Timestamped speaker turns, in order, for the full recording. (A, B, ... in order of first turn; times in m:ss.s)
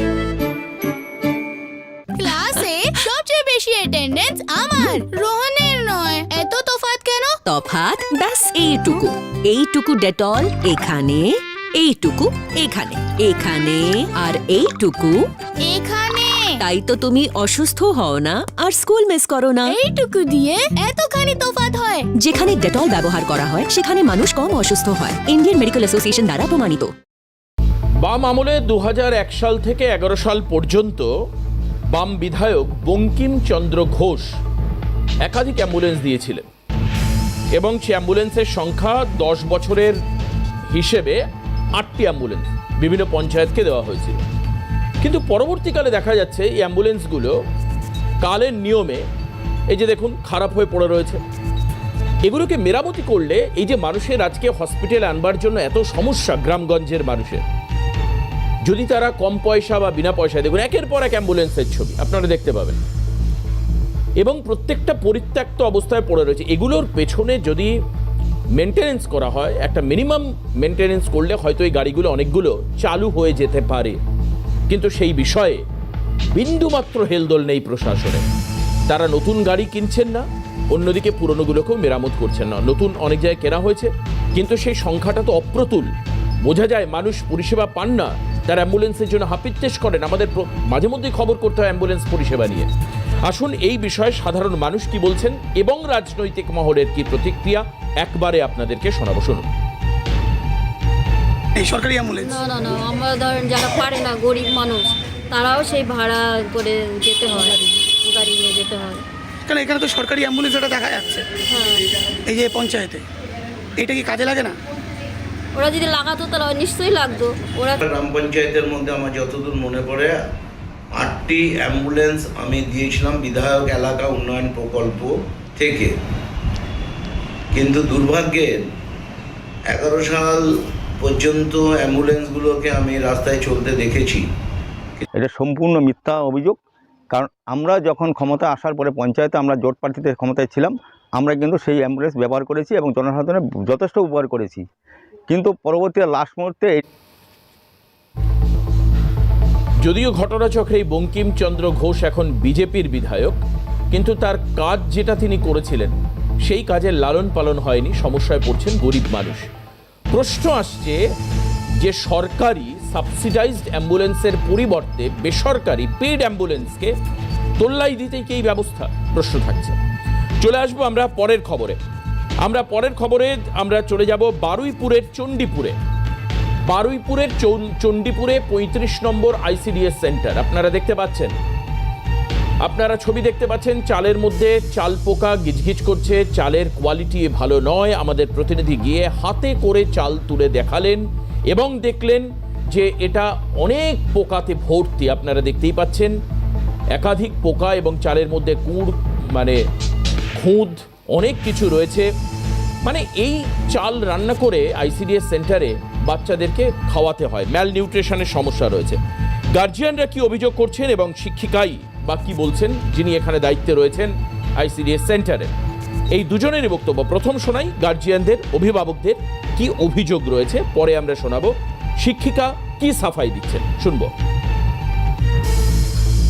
0:02.2-0:07.4 A
0:07.4-0:15.3 B
0:15.6-0:16.6 A
0:16.6-0:19.8 B
0:19.6-0:22.1 A
0:22.2-0:26.9 B
0:28.0-0:31.1 C
0:31.9-0:34.3 C
0:35.2-0:36.5 C
0:37.5-0:40.0 C
0:40.7-0:41.2 C
0:41.8-0:44.2 C
0:45.0-0:47.3 C
0:48.2-0:49.1 C
0:49.7-0:51.2 C
0:52.2-0:57.4 C
0:58.6-1:02.8 C
1:04.2-1:07.7 C
1:08.6-1:14.0 C
1:14.7-1:15.6 C
1:16.3-1:18.2 C
1:18.9-1:25.9 C
1:26.4-1:32.7 C
1:33.2-1:39.5 C
1:41.6-1:42.3 D
1:42.2-1:49.0 E
1:49.5-1:51.2 D
1:51.5-1:51.8 E
1:52.3-1:53.0 D
1:53.8-1:54.5 D
1:55.5-1:57.8 E
1:57.8-2:00.1 F
2:01.0-2:05.9 F
2:07.5-2:08.5 F
2:09.7-2:10.4 F
2:11.0-2:14.2 F
2:15.2-2:16.6 G
2:17.1-2:24.6 G
2:25.3-2:26.8 G
2:29.8-2:33.4 C
2:33.9-2:35.9 C
2:36.4-2:39.5 C
2:40.1-2:41.0 C
2:41.8-2:46.9 C
2:47.6-2:49.8 C
2:50.4-2:51.8 C
2:52.4-2:55.8 C
2:56.7-3:01.3 C
3:02.6-3:16.1 C
3:16.9-3:19.6 C
3:20.3-3:22.1 C
3:22.8-3:29.0 C
3:29.5-3:35.5 C
3:36.1-3:44.1 C